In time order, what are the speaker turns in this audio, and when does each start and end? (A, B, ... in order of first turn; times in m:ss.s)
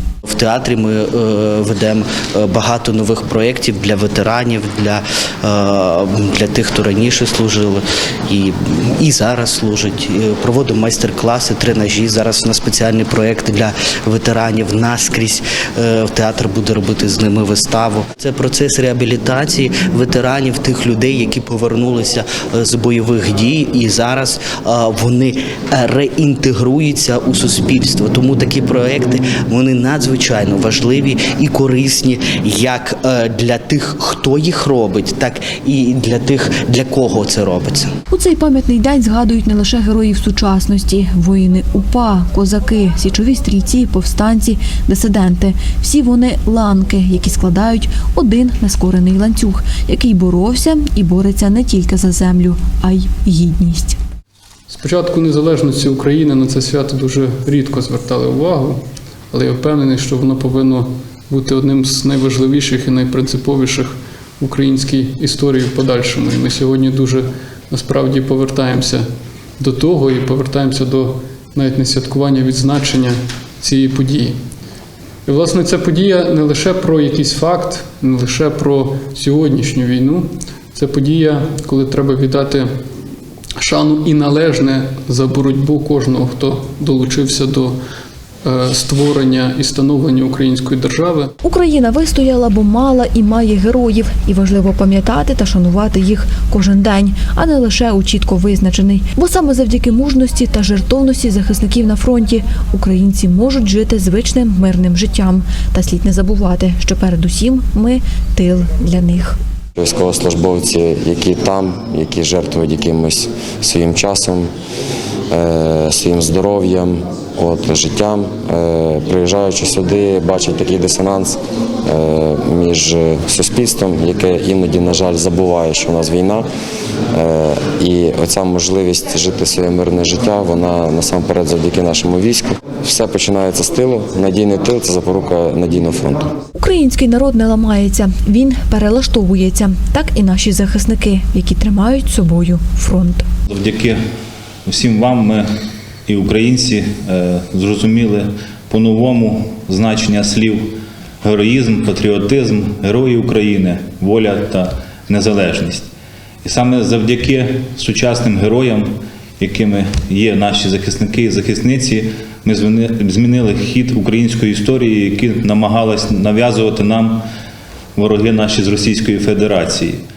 0:00.2-0:37.9 A
0:38.1-0:54.0 B
0:54.7-1:14.4 C
1:15.2-1:22.7 C
1:23.6-1:27.8 C
1:28.4-1:31.3 C
1:31.4-1:49.4 B
1:49.8-1:54.5 D
1:55.3-2:06.5 D
2:07.1-2:16.3 D
2:16.6-2:23.2 B
2:23.5-2:24.0 E
2:24.7-2:25.5 E
2:26.1-2:35.9 E
2:36.4-2:47.2 E
2:48.0-2:50.0 E